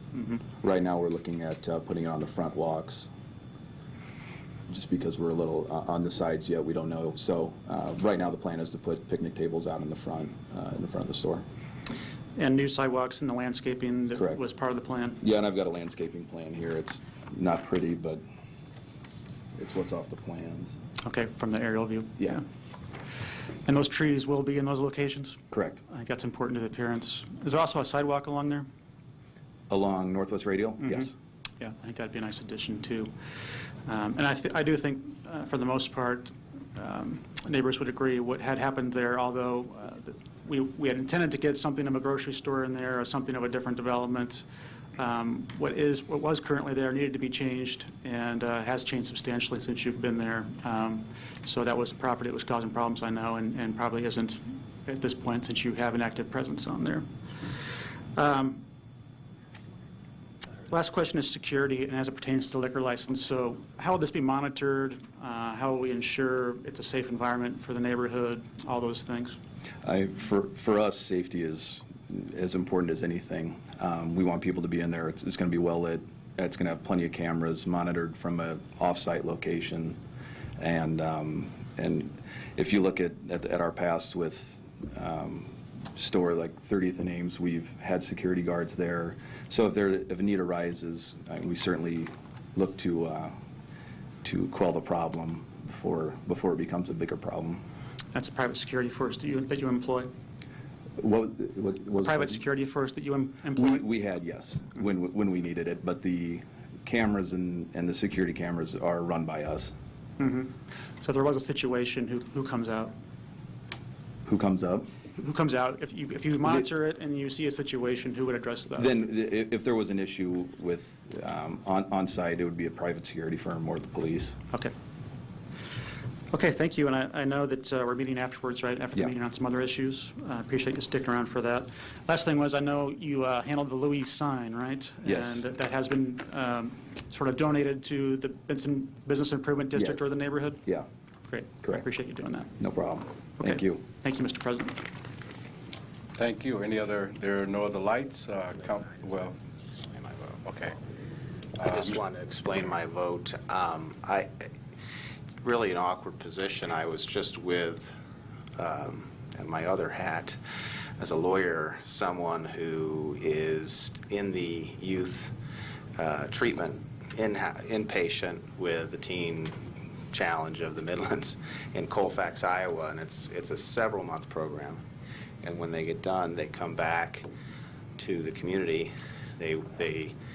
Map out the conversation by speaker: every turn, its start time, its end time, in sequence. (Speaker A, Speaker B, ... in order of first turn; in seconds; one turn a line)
Speaker A: 0.1-0.4
Speaker B: 0.6-3.1
Speaker B: 4.7-11.4
Speaker A: 12.4-15.2
Speaker B: 15.2-18.2
Speaker B: 19.6-20.7
Speaker A: 21.1-22.4
Speaker A: 23.6-28.7
Speaker B: 25.5-25.8
Speaker B: 29.7-31.1
Speaker A: 30.8-31.1
Speaker A: 31.6-33.1
Speaker A: 33.9-44.4
Speaker A: 45.0-58.6
Speaker A: 60.7-69.4
Speaker B: 69.8-80.0
Speaker B: 80.6-93.4
Speaker B: 94.2-97.6
Speaker A: 98.1-100.1
Speaker B: 101.0-102.4
Speaker A: 102.0-103.8
Speaker B: 103.5-109.7
Speaker A: 110.2-112.9
Speaker B: 114.3-114.9
Speaker A: 115.2-118.9
Speaker B: 118.8-124.4
Speaker A: 126.3-140.6
Speaker B: 135.0-135.4
Speaker B: 139.8-140.9
Speaker A: 141.3-142.5
Speaker B: 142.6-143.8
Speaker A: 143.4-144.8
Speaker C: 146.2-149.4
Speaker D: 149.7-150.4
Speaker C: 150.4-150.8
Speaker C: 151.6-152.0
Speaker D: 151.6-154.3
Speaker D: 155.4-157.9
Speaker D: 158.6-160.4
Speaker D: 161.0-165.3
Speaker D: 166.0-169.5
Speaker D: 170.1-174.8
Speaker D: 175.4-177.3
Speaker D: 178.0-180.1